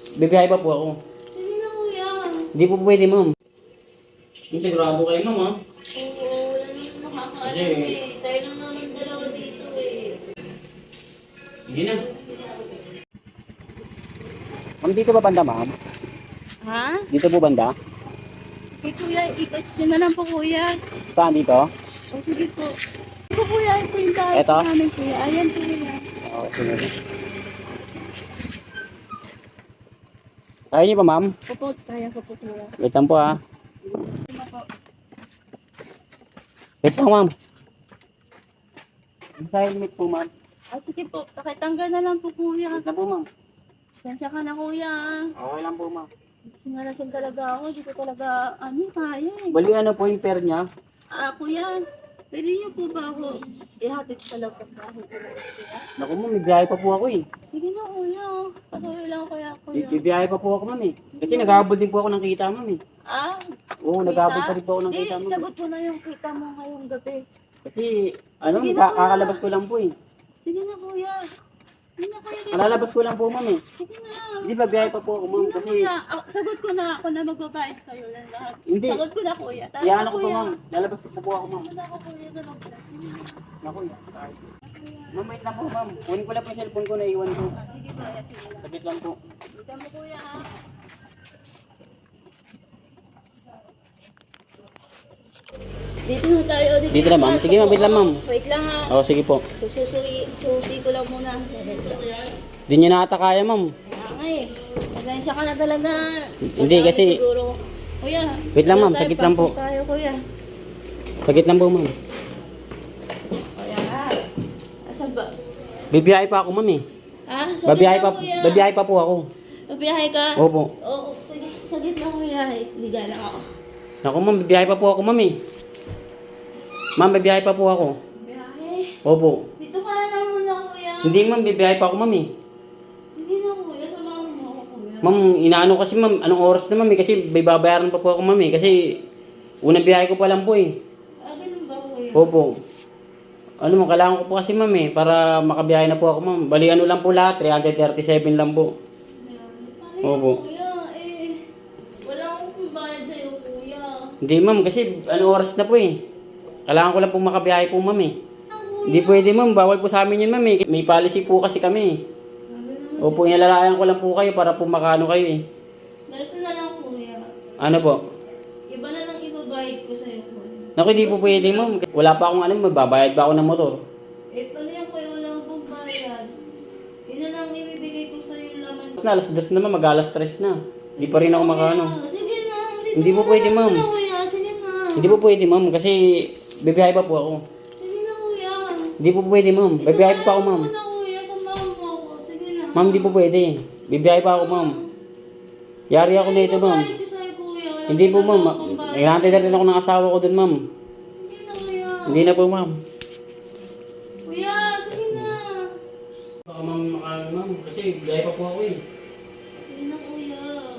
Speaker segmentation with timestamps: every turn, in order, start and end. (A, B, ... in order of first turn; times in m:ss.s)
0:00.2-0:01.0 A
0:01.4-0:02.5 B
0:02.6-0:03.3 A
0:04.5-0:05.5 A
0:06.0-0:10.1 B
0:07.4-0:08.0 A
0:11.7-0:12.0 A
0:14.8-0:15.7 A
0:16.6-0:17.1 B
0:17.1-0:17.7 A
0:18.8-0:20.8 B
0:21.2-0:21.6 A
0:22.1-0:22.7 B
0:23.3-0:26.0 B
0:24.3-0:24.7 A
0:26.3-0:26.9 A
0:30.7-0:31.3 A
0:31.5-0:32.7 B
0:32.8-0:33.3 A
0:34.1-0:34.6 B
0:36.8-0:37.3 A
0:39.4-0:40.3 A
0:40.7-0:42.8 B
0:42.7-0:43.2 A
0:44.0-0:45.3 B
0:45.4-0:46.1 A
0:46.6-0:49.6 B
0:49.5-0:50.6 A
0:51.2-0:51.8 B
0:52.3-0:55.8 B
0:56.0-0:57.2 A
0:57.5-1:00.0 B
0:59.8-1:02.8 A
1:01.1-1:01.7 B
1:03.1-1:03.5 B
1:03.8-1:05.4 A
1:04.0-1:07.2 B
1:07.7-1:09.9 A
1:08.5-1:09.4 B
1:10.4-1:11.2 B
1:12.0-1:12.9 B
1:12.5-1:13.6 A
1:13.8-1:20.6 B
1:14.4-1:15.9 A
1:18.7-1:19.0 A
1:19.8-1:21.7 A
1:21.4-1:23.3 B
1:23.6-1:24.4 A
1:24.7-1:25.1 B
1:25.1-1:27.5 A
1:27.6-1:28.6 B
1:28.6-1:29.2 A
1:29.5-1:30.5 B
1:36.1-1:39.0 B
1:36.9-1:38.2 A
1:38.9-1:39.4 A
1:39.6-1:42.0 B
1:42.7-1:43.7 A
1:43.9-1:50.2 B
1:46.5-1:47.2 A
1:48.6-1:49.6 A
1:51.2-1:51.9 A
1:53.6-1:54.2 B
1:54.9-1:55.3 B
1:55.9-1:56.8 A
1:57.3-1:58.7 B
1:57.6-1:59.2 A
1:59.7-2:03.4 B
2:00.4-2:00.7 A
2:04.0-2:05.3 A
2:07.0-2:08.0 A
2:08.2-2:09.0 B
2:09.0-2:09.4 A
2:09.6-2:11.3 B
2:11.0-2:12.2 A
2:13.2-2:15.2 B
2:15.0-2:18.8 A
2:19.6-2:20.7 A
2:21.2-2:22.3 B
2:22.2-2:22.5 A
2:23.6-2:28.7 A
2:29.2-2:31.4 B
2:30.0-2:30.4 A
2:32.0-2:34.1 B
2:34.2-2:36.0 A
2:36.7-2:38.1 A
2:38.5-2:39.3 B
2:38.9-2:42.0 A
2:42.5-2:43.5 B
2:43.0-2:45.4 A
2:46.1-2:47.3 B
2:47.6-2:48.0 A
2:48.7-2:51.7 B
2:50.8-2:53.8 A
2:54.4-2:56.3 B
2:57.1-2:59.0 B
2:59.0-3:01.9 A
3:01.0-3:05.2 B
3:03.0-3:03.9 A
3:05.0-3:06.0 A
3:06.6-3:07.4 A
3:07.8-3:08.9 B
3:09.0-3:10.7 A
3:09.8-3:13.2 B
3:12.8-3:14.7 A
3:14.2-3:14.8 B
3:15.9-3:16.9 A
3:16.0-3:19.7 B
3:17.9-3:20.6 A
3:21.2-3:22.3 B
3:22.1-3:22.8 A
3:24.2-3:25.6 B
3:24.9-3:25.4 A
3:26.5-3:28.8 A
3:29.6-3:30.6 B